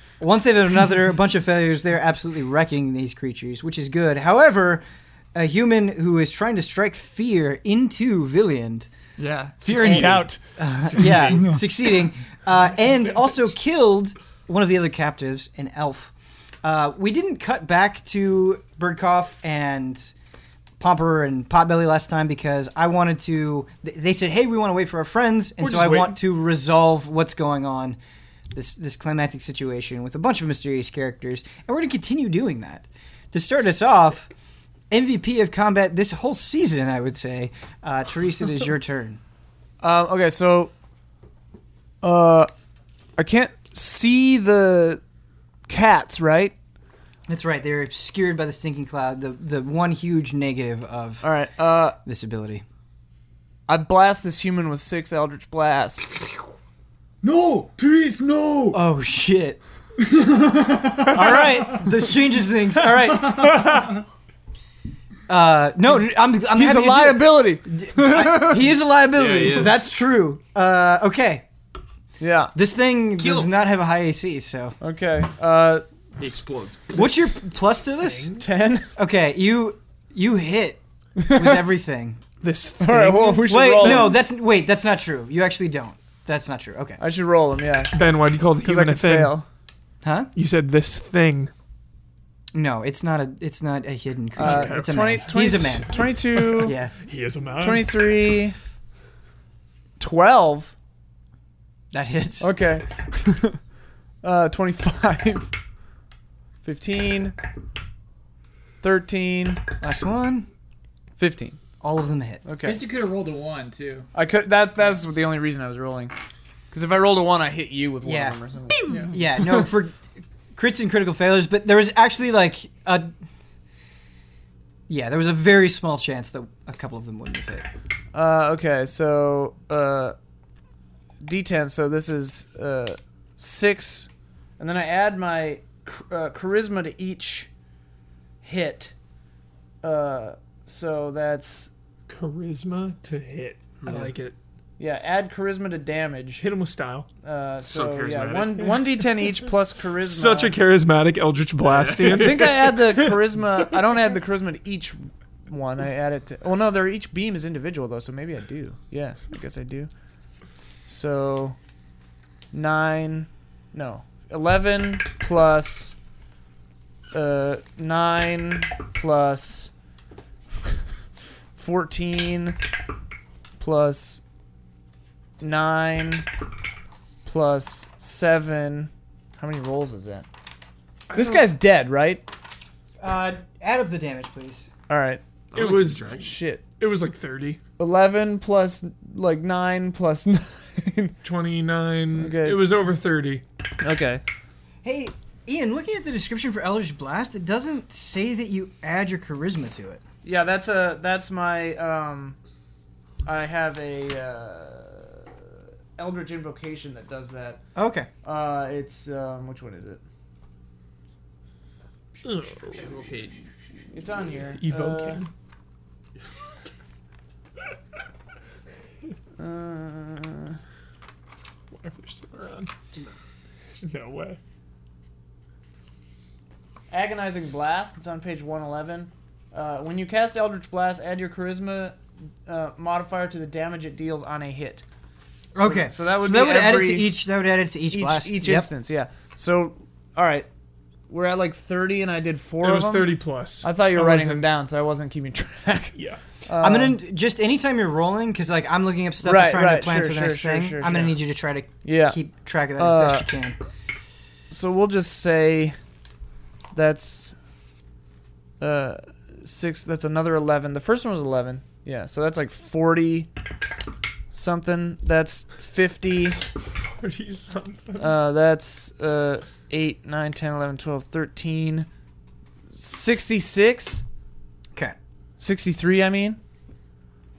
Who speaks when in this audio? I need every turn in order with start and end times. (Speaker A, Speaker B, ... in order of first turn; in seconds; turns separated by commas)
Speaker A: 0.2-8.9, Speaker B: 9.2-10.4, Speaker A: 9.6-16.1, Speaker C: 9.8-10.2, Speaker C: 10.9-11.3, Speaker B: 10.9-11.7, Speaker A: 16.6-20.1, Speaker A: 20.8-28.0, Speaker D: 25.6-26.2, Speaker A: 28.5-34.3, Speaker A: 34.9-39.2, Speaker E: 39.8-40.7, Speaker E: 42.0-42.5, Speaker E: 43.2-45.0, Speaker E: 45.7-46.5, Speaker A: 47.3-51.3, Speaker E: 51.2-52.0, Speaker A: 52.0-52.6, Speaker E: 53.7-56.3, Speaker B: 57.2-58.8, Speaker A: 58.7-59.6, Speaker B: 60.0-61.9, Speaker A: 61.0-63.9, Speaker B: 63.2-63.7, Speaker A: 65.3-71.5, Speaker E: 66.0-68.7, Speaker C: 69.1-69.9, Speaker E: 72.2-72.5, Speaker A: 72.5-74.8, Speaker D: 73.2-73.5, Speaker E: 74.8-75.8, Speaker C: 76.2-77.0, Speaker A: 77.0-78.3, Speaker D: 78.0-78.4, Speaker E: 78.4-78.9, Speaker A: 79.0-82.2, Speaker E: 81.2-81.7, Speaker D: 82.4-84.2, Speaker E: 82.8-84.2, Speaker A: 83.5-87.0, Speaker E: 87.0-88.0, Speaker D: 87.9-89.4, Speaker E: 88.5-89.5, Speaker A: 90.0-90.3, Speaker D: 90.3-91.5, Speaker A: 92.5-96.0, Speaker D: 94.4-97.9, Speaker E: 94.4-96.8, Speaker A: 96.6-97.0, Speaker E: 97.6-98.6, Speaker E: 100.0-100.7, Speaker A: 101.9-102.5, Speaker E: 102.4-103.6, Speaker E: 104.2-105.5, Speaker E: 106.6-107.4, Speaker E: 108.8-109.6, Speaker A: 109.8-110.5, Speaker E: 111.2-111.6, Speaker A: 111.8-112.4, Speaker E: 112.5-112.8, Speaker B: 112.6-114.1, Speaker E: 114.1-116.1, Speaker E: 116.7-119.7, Speaker A: 118.0-118.4, Speaker B: 118.9-119.2, Speaker A: 118.9-120.0, Speaker A: 120.5-123.1, Speaker A: 124.9-127.7, Speaker E: 128.1-130.2, Speaker E: 131.2-137.5, Speaker E: 138.4-138.9, Speaker E: 139.8-141.7, Speaker D: 142.1-144.3, Speaker C: 143.8-144.1, Speaker E: 144.8-146.4, Speaker D: 146.4-147.1, Speaker E: 147.2-150.6, Speaker C: 147.6-148.7, Speaker D: 150.0-153.2, Speaker C: 151.6-152.5, Speaker E: 151.9-159.9, Speaker E: 160.9-161.6, Speaker E: 162.5-166.0, Speaker E: 167.1-169.7, Speaker E: 171.6-172.6, Speaker E: 173.6-174.2, Speaker E: 175.4-176.3, Speaker E: 177.2-180.3, Speaker D: 181.1-181.5, Speaker E: 181.1-182.3, Speaker A: 183.0-184.7, Speaker E: 184.9-186.6, Speaker C: 185.5-186.3, Speaker D: 185.5-187.6, Speaker E: 187.8-191.2, Speaker D: 191.2-193.4, Speaker E: 192.2-192.7, Speaker E: 193.8-194.2, Speaker A: 194.8-200.0, Speaker E: 200.2-202.4, Speaker E: 203.2-205.4, Speaker E: 206.0-207.6, Speaker A: 207.8-208.1, Speaker E: 208.2-210.0, Speaker D: 212.2-212.8, Speaker C: 212.8-213.5, Speaker E: 213.9-215.2, Speaker D: 214.5-215.3, Speaker E: 219.4-220.6, Speaker D: 221.7-222.7, Speaker D: 223.8-224.4, Speaker E: 226.9-234.8, Speaker A: 235.6-238.7, Speaker E: 235.6-237.1, Speaker E: 237.9-240.5, Speaker E: 241.1-247.0, Speaker D: 242.6-244.5, Speaker D: 245.9-246.2, Speaker A: 246.6-253.6, Speaker E: 249.2-251.2, Speaker E: 251.8-252.2, Speaker E: 252.8-253.3, Speaker E: 254.5-255.8, Speaker E: 256.7-257.4, Speaker E: 258.6-263.3, Speaker E: 264.3-266.4, Speaker D: 266.7-268.1, Speaker E: 268.0-271.9, Speaker E: 272.7-274.1, Speaker E: 275.4-276.4